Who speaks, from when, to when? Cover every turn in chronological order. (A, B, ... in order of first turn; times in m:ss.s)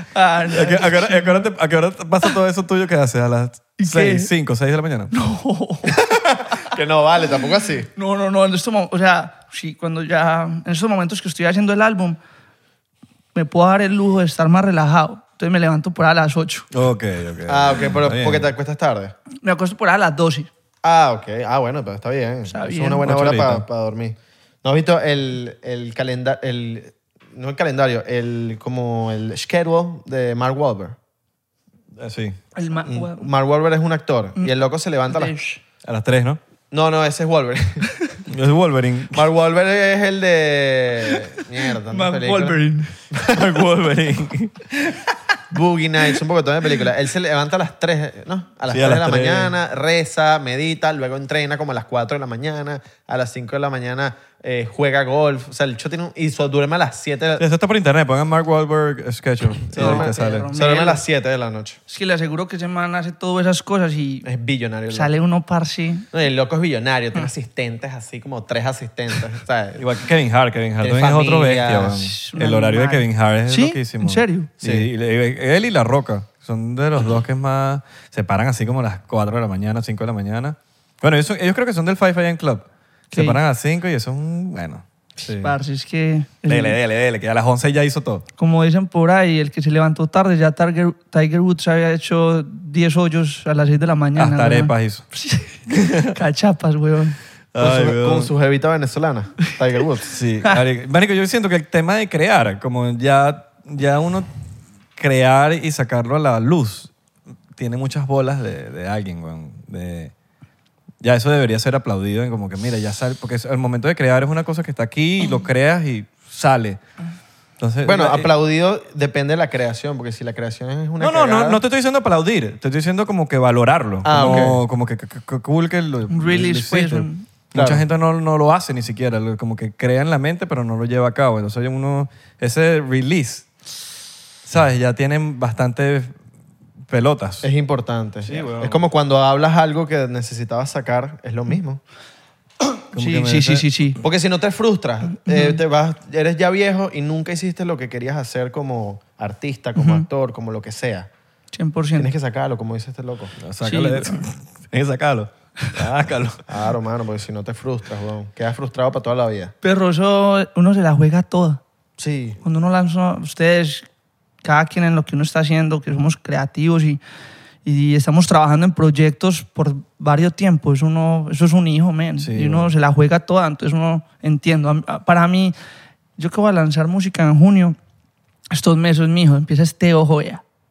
0:00.1-0:01.5 A
0:00.5-0:05.1 B
0:03.8-0:04.3 A
0:05.1-0:05.9 A
0:06.1-0:07.9 C
0:07.9-0:12.2 A
0:13.3-0:16.7 A
0:16.7-0:18.5 B
0:17.4-0:19.1 C
0:19.4-0:20.5 A
0:20.8-0:31.0 C
0:22.5-0:23.1 A
0:23.0-0:23.6 B
0:32.0-0:32.4 B
0:32.6-0:33.3 A
0:32.8-0:35.3 C
0:35.1-0:35.6 A
0:35.8-0:36.4 B
0:36.7-0:37.9 C
0:38.3-0:39.2 B
0:39.1-0:42.6 C
0:41.9-0:42.9 A
0:43.2-0:44.5 B
0:45.5-0:57.4 C
0:48.7-0:49.5 B
0:57.4-1:00.5 B
0:59.7-1:01.8 C
0:59.8-1:01.0 A
1:01.9-1:04.3 A
1:04.2-1:05.1 C
1:04.9-1:06.1 A
1:06.1-1:09.8 C
1:09.8-1:25.4 B
1:10.8-1:12.0 C
1:12.0-1:14.5 A
1:14.6-1:14.9 C
1:23.1-1:23.4 A
1:25.4-1:26.8 A
1:26.4-1:28.2 B
1:28.4-1:37.2 A
1:34.2-1:35.0 B
1:35.7-1:36.2 B
1:37.5-1:38.3 B
1:37.6-1:40.2 C
1:40.1-1:44.3 B
1:45.0-1:46.9 B
1:47.5-1:50.1 B
1:51.0-1:56.8 B
1:57.6-1:58.3 B
1:57.8-2:01.6 C
2:01.0-2:13.5 B
2:04.0-2:04.6 C
2:06.1-2:07.2 A
2:07.5-2:07.8 C
2:14.4-2:16.1 B
2:16.9-2:17.5 B
2:17.4-2:21.8 C
2:18.2-2:18.8 B
2:22.9-2:24.0 A
2:22.9-2:24.0 B
2:24.0-2:31.1 C
2:25.2-2:25.6 A
2:29.8-2:30.0 A
2:31.5-2:32.1 A
2:32.0-2:33.3 C
2:33.4-2:36.4 B
2:33.6-2:34.2 A
2:36.5-2:39.5 C
2:39.6-2:41.6 A
2:42.0-2:42.4 C
2:42.4-2:43.8 A
2:44.4-2:47.0 A
2:47.6-2:55.6 A
2:52.2-2:52.7 B
2:56.2-2:57.8 A
2:58.5-3:00.4 A